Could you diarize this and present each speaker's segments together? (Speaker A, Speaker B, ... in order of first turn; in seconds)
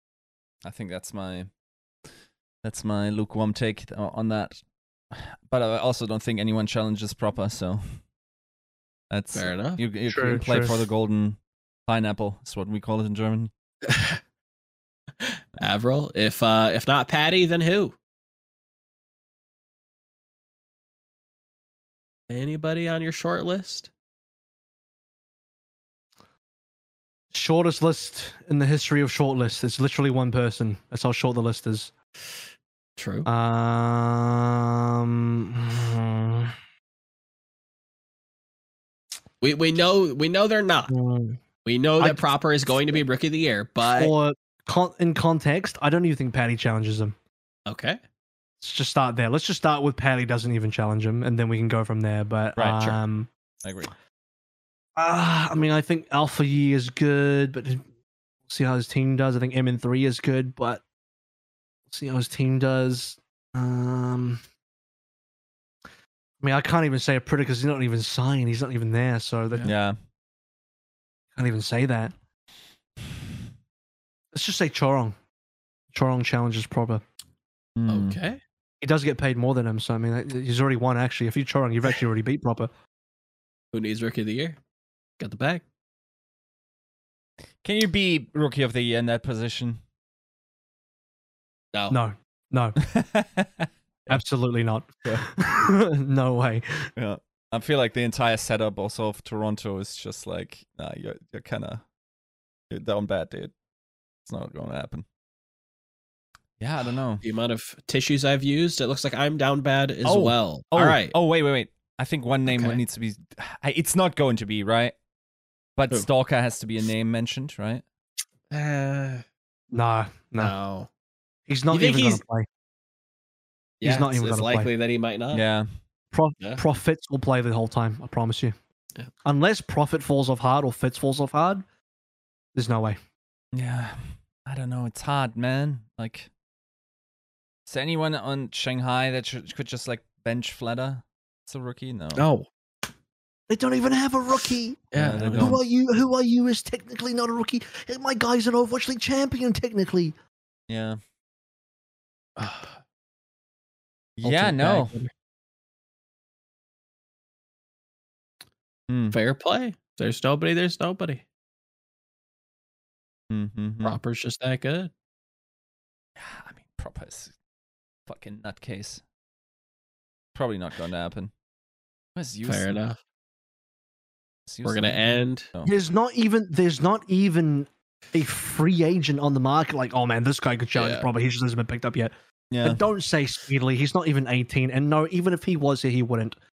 Speaker A: 0.6-1.5, 2.6-8.0, 9.1-13.5, 53.6-53.9, 69.6-70.0, 77.8-78.2, 87.6-89.8, 92.9-94.2, 97.0-101.8, 102.7-103.5, 104.2-105.0, 106.6-107.2, 110.0-115.0, 115.8-117.8, 125.3-125.7, 133.5-136.3, 137.7-142.2, 144.9-145.6, 150.7-151.0, 154.2-154.9, 158.9-159.2, 163.3-164.0, 166.2-167.3, 168.1-169.0, 170.3-171.3, 172.2-172.8, 174.5-175.7, 182.5-182.8
Speaker B: 9.3-9.8, 13.9-14.2, 15.2-18.0, 22.3-23.9, 33.0-33.3, 39.4-40.9, 41.6-44.1, 47.7-48.0, 77.9-78.4, 83.7-84.6, 85.2-85.6, 107.2-111.1, 112.5-112.8, 118.5-119.2, 120.4-120.9, 121.7-122.2, 123.8-125.4, 142.1-142.4, 144.9-145.6, 152.4-152.7, 159.1-161.2, 163.8-164.9, 172.4-173.0, 174.6-175.5, 180.7-181.1
Speaker C: 10.1-10.8, 27.3-31.9, 33.2-36.5, 40.9-41.4, 42.0-42.9, 43.9-47.1, 48.6-53.3, 55.0-57.8, 58.5-60.8, 61.9-64.4, 66.4-69.7, 71.3-72.1, 74.3-75.2, 75.9-77.0, 78.8-82.7, 91.9-92.8, 94.1-96.9, 119.7-120.5, 121.5-122.5, 123.8-124.7, 126.1-128.5, 129.2-131.6, 132.5-133.0, 143.5-144.8, 145.4-150.1, 154.2-155.1, 175.6-186.3